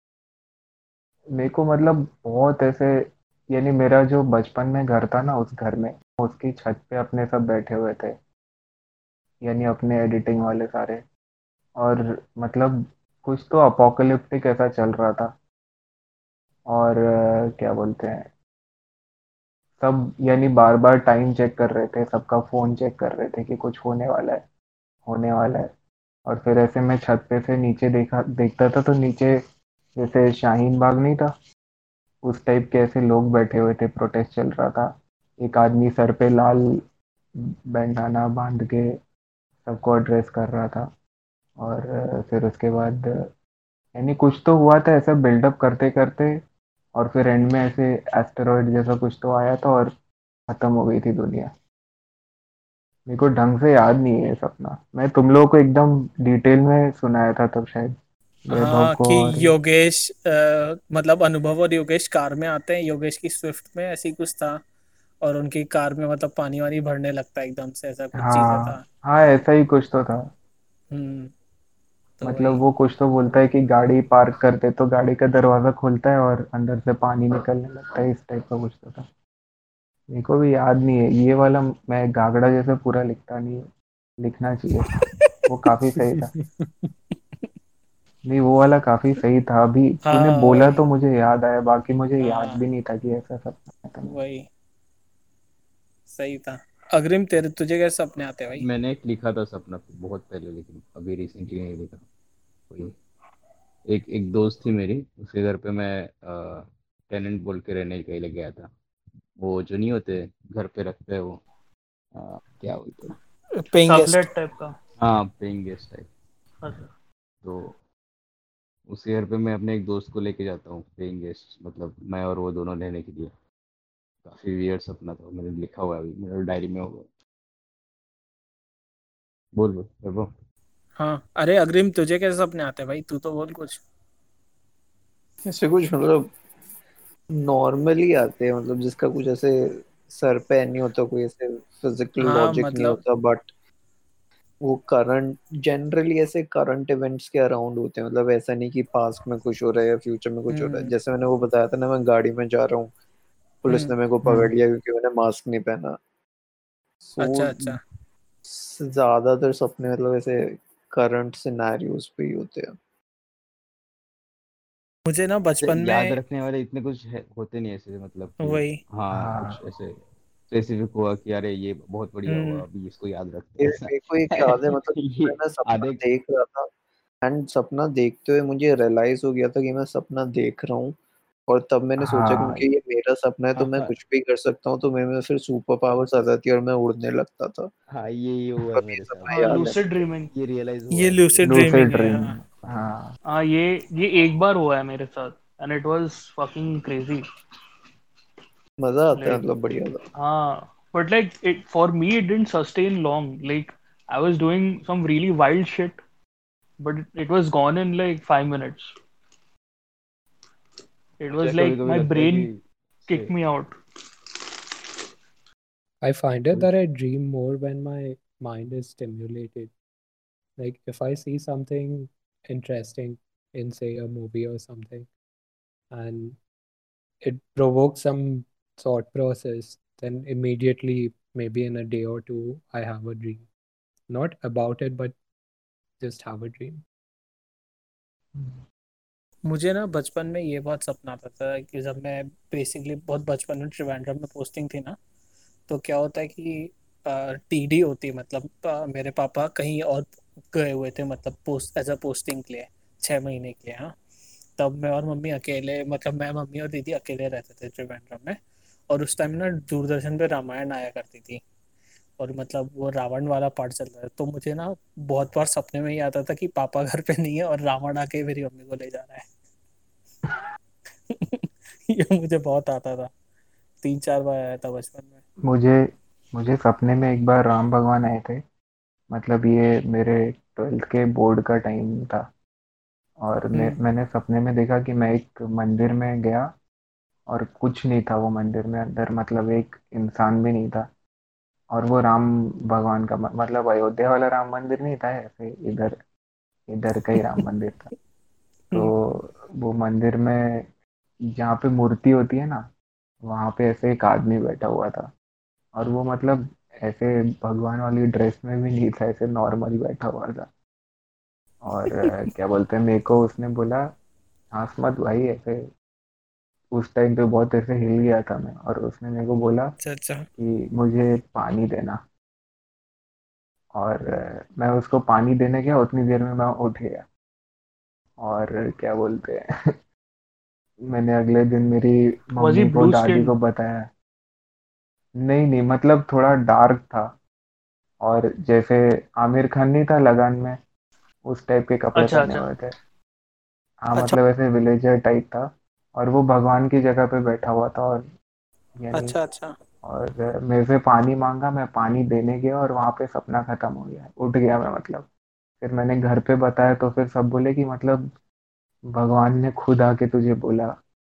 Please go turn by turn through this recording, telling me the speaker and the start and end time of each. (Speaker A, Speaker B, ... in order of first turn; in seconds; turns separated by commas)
Speaker A: 1.4-8.2, Speaker A: 9.4-11.0, Speaker A: 11.8-15.3, Speaker A: 16.7-18.3, Speaker A: 19.8-24.4, Speaker A: 25.1-25.7, Speaker A: 26.3-29.4, Speaker A: 30.0-31.3, Speaker A: 32.2-36.8, Speaker A: 37.7-39.0, Speaker A: 39.6-40.9, Speaker A: 41.6-43.3, Speaker A: 44.0-46.4, Speaker A: 47.0-49.9, Speaker A: 50.5-51.5, Speaker A: 53.1-57.9, Speaker A: 58.5-59.5, Speaker B: 58.5-64.6, Speaker B: 65.2-68.8, Speaker A: 68.2-70.3, Speaker B: 70.9-71.3, Speaker B: 72.2-72.6, Speaker A: 72.2-79.1, Speaker A: 80.1-83.7, Speaker A: 84.2-84.9, Speaker B: 84.9-85.3, Speaker A: 85.5-86.3, Speaker C: 86.1-86.9, Speaker A: 88.2-94.2, Speaker B: 90.0-90.8, Speaker B: 92.2-92.6, Speaker B: 94.0-94.5, Speaker B: 96.1-98.7, Speaker D: 98.6-102.0, Speaker D: 103.9-108.7, Speaker D: 109.4-111.4, Speaker D: 112.2-113.2, Speaker B: 113.6-114.3, Speaker E: 113.9-114.8, Speaker D: 115.0-116.1, Speaker E: 116.6-116.9, Speaker D: 117.4-117.8, Speaker D: 118.9-123.3, Speaker D: 124.2-127.1, Speaker D: 129.6-130.3, Speaker B: 131.0-133.8, Speaker F: 135.5-136.3, Speaker F: 137.3-143.5, Speaker B: 142.2-143.0, Speaker F: 144.6-152.9, Speaker B: 150.5-150.9, Speaker F: 153.6-156.0, Speaker F: 157.0-157.8, Speaker B: 157.2-157.8, Speaker F: 158.5-162.8, Speaker B: 165.1-166.2, Speaker D: 165.6-170.0, Speaker B: 168.4-168.8, Speaker A: 169.1-169.6, Speaker D: 170.5-176.0, Speaker B: 172.3-172.6, Speaker F: 173.6-176.7, Speaker F: 177.2-181.0, Speaker F: 181.5-187.7, Speaker A: 182.0-182.7, Speaker D: 183.6-183.9, Speaker D: 187.9-189.8, Speaker F: 188.7-189.8, Speaker E: 189.3-190.3, Speaker D: 190.3-191.6, Speaker B: 190.9-192.3, Speaker A: 191.4-193.1, Speaker E: 193.3-197.2, Speaker F: 198.8-200.0, Speaker E: 199.2-199.4, Speaker E: 200.2-206.0, Speaker E: 206.8-208.9, Speaker E: 211.2-212.5, Speaker D: 211.3-213.3, Speaker E: 213.1-213.7, Speaker C: 216.0-219.7, Speaker C: 220.6-225.1, Speaker C: 225.9-226.4, Speaker C: 227.2-233.4, Speaker C: 234.1-235.2, Speaker C: 236.0-236.8, Speaker B: 239.4-245.0, Speaker B: 245.7-253.9, Speaker B: 254.6-258.4, Speaker B: 258.9-261.4, Speaker B: 262.2-269.2, Speaker B: 271.1-273.1, Speaker B: 273.8-275.2, Speaker A: 275.4-278.4, Speaker A: 279.1-282.3, Speaker A: 283.2-286.5, Speaker B: 283.5-283.8, Speaker A: 287.3-290.9, Speaker A: 291.7-296.0, Speaker A: 296.7-297.9, Speaker A: 298.7-300.7, Speaker A: 301.3-302.7, Speaker A: 303.3-305.1, Speaker A: 305.8-310.5, Speaker A: 311.6-313.9, Speaker A: 314.5-315.7, Speaker A: 316.7-319.8, Speaker B: 319.8-320.3, Speaker A: 320.4-322.0, Speaker A: 323.8-327.1, Speaker A: 328.2-329.4, Speaker A: 330.9-333.9, Speaker E: 332.4-333.3, Speaker A: 335.2-337.1, Speaker A: 338.0-340.6, Speaker A: 341.3-342.8, Speaker E: 341.9-342.5, Speaker A: 343.8-348.1, Speaker A: 348.8-349.2, Speaker B: 348.9-349.5, Speaker A: 349.8-355.1, Speaker A: 355.6-358.1, Speaker A: 358.9-360.8